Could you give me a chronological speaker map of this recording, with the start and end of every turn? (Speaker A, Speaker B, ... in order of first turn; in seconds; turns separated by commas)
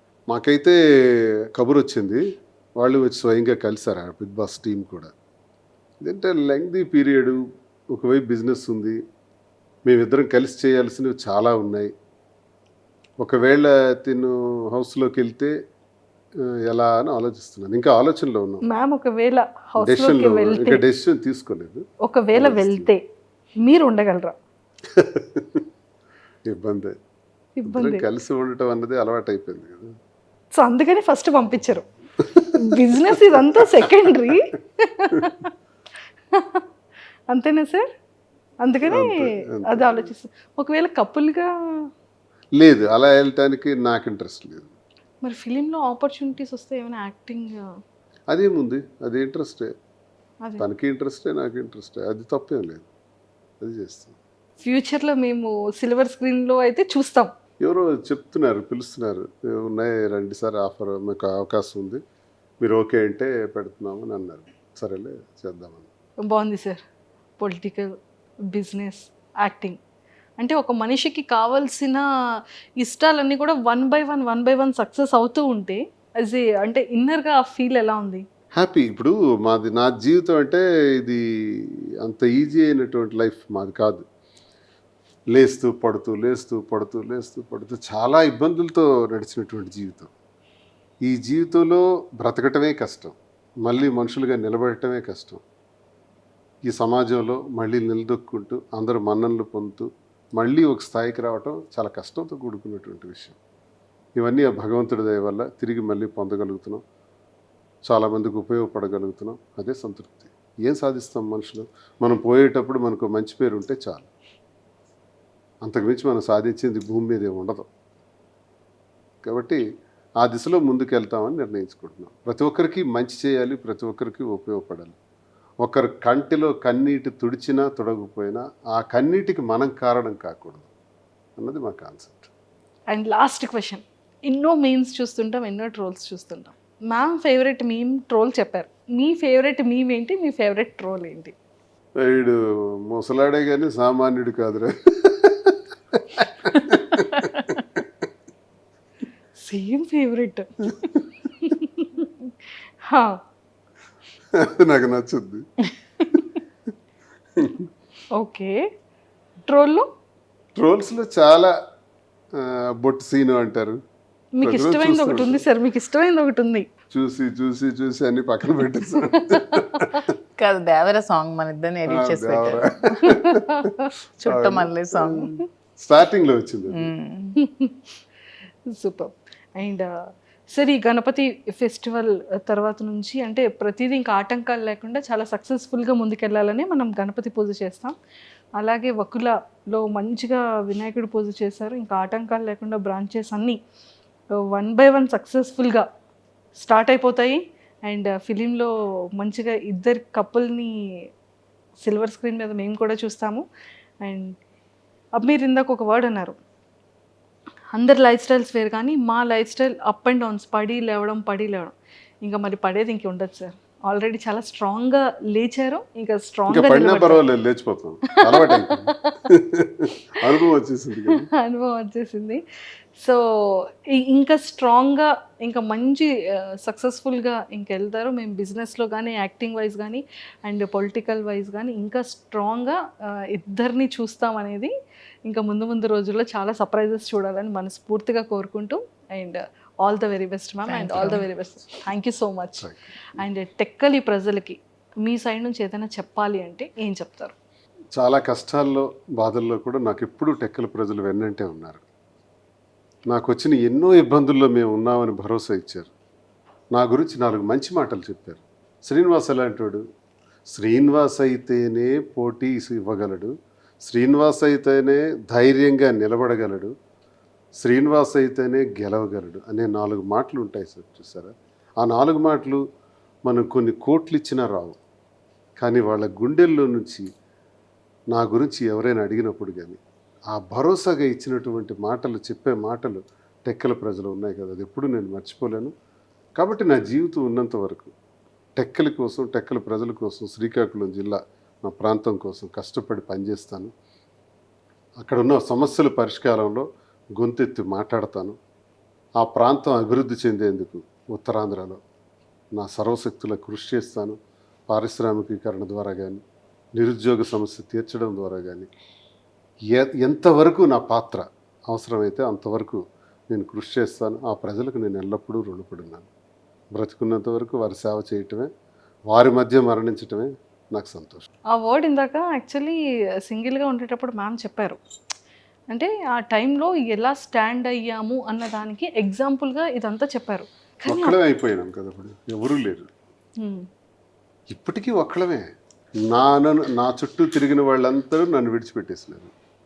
Speaker A: 0.3-2.2, Speaker A: 2.8-5.1, Speaker A: 6.0-7.4, Speaker A: 7.9-9.0, Speaker A: 9.9-11.9, Speaker A: 13.2-15.5, Speaker A: 16.7-18.7, Speaker B: 18.6-20.9, Speaker A: 19.8-22.9, Speaker B: 22.1-23.0, Speaker B: 23.6-24.4, Speaker A: 24.9-25.6, Speaker A: 26.5-26.9, Speaker B: 27.6-28.1, Speaker A: 27.6-29.9, Speaker B: 30.6-31.9, Speaker B: 32.5-35.5, Speaker B: 36.3-36.6, Speaker B: 37.3-37.9, Speaker B: 38.6-41.5, Speaker A: 38.8-40.1, Speaker A: 42.6-44.8, Speaker B: 45.2-47.6, Speaker A: 48.3-49.7, Speaker B: 50.4-50.7, Speaker A: 50.6-52.9, Speaker A: 53.6-54.2, Speaker B: 54.6-57.3, Speaker A: 57.6-62.0, Speaker A: 62.6-65.9, Speaker B: 66.2-66.8, Speaker B: 67.4-67.9, Speaker B: 68.5-69.8, Speaker B: 70.4-72.0, Speaker B: 72.8-78.2, Speaker A: 78.6-84.0, Speaker A: 85.3-90.1, Speaker A: 91.0-95.4, Speaker A: 96.7-103.4, Speaker A: 104.2-106.8, Speaker A: 107.8-114.1, Speaker A: 115.6-117.7, Speaker A: 119.2-119.6, Speaker A: 120.2-125.0, Speaker A: 125.6-130.7, Speaker A: 131.4-132.3, Speaker B: 132.9-141.3, Speaker A: 142.0-147.8, Speaker B: 149.4-152.3, Speaker B: 152.8-153.1, Speaker A: 154.3-155.4, Speaker A: 157.4-157.7, Speaker B: 158.2-158.6, Speaker B: 159.5-159.9, Speaker A: 160.6-161.5, Speaker A: 162.4-163.8, Speaker B: 164.4-166.7, Speaker A: 164.4-165.4, Speaker A: 166.9-170.1, Speaker B: 169.3-169.8, Speaker C: 170.4-173.2, Speaker A: 171.9-173.6, Speaker B: 173.2-173.7, Speaker C: 174.2-175.4, Speaker A: 174.3-176.9, Speaker C: 176.7-177.4, Speaker B: 177.4-177.8, Speaker B: 178.7-179.9, Speaker B: 180.5-187.9, Speaker B: 188.6-193.6, Speaker B: 194.5-195.8, Speaker B: 196.6-200.7, Speaker B: 201.8-203.4, Speaker B: 204.0-204.3, Speaker B: 205.2-206.4, Speaker B: 207.7-217.2, Speaker A: 216.5-221.3, Speaker B: 218.4-219.2, Speaker B: 221.4-222.4, Speaker B: 223.9-232.8, Speaker B: 233.3-234.7, Speaker B: 235.3-247.3, Speaker C: 240.7-241.3, Speaker A: 242.6-243.2, Speaker A: 248.0-251.8, Speaker A: 253.1-255.9, Speaker A: 256.7-259.8, Speaker A: 260.5-263.3, Speaker A: 263.8-266.7, Speaker A: 267.6-272.6, Speaker A: 273.3-274.8, Speaker A: 275.6-277.1, Speaker A: 278.1-279.8, Speaker A: 280.3-285.7, Speaker A: 286.4-287.9, Speaker A: 288.6-293.7, Speaker A: 295.0-296.6, Speaker A: 297.2-298.4, Speaker A: 299.2-301.8, Speaker A: 302.6-304.2, Speaker A: 304.7-306.2, Speaker A: 306.8-308.7, Speaker A: 309.7-316.1, Speaker A: 316.8-318.5, Speaker A: 319.1-321.3, Speaker B: 321.5-324.8, Speaker B: 325.7-331.2, Speaker A: 330.9-332.9, Speaker B: 333.4-333.6, Speaker A: 334.5-335.5, Speaker A: 336.1-339.3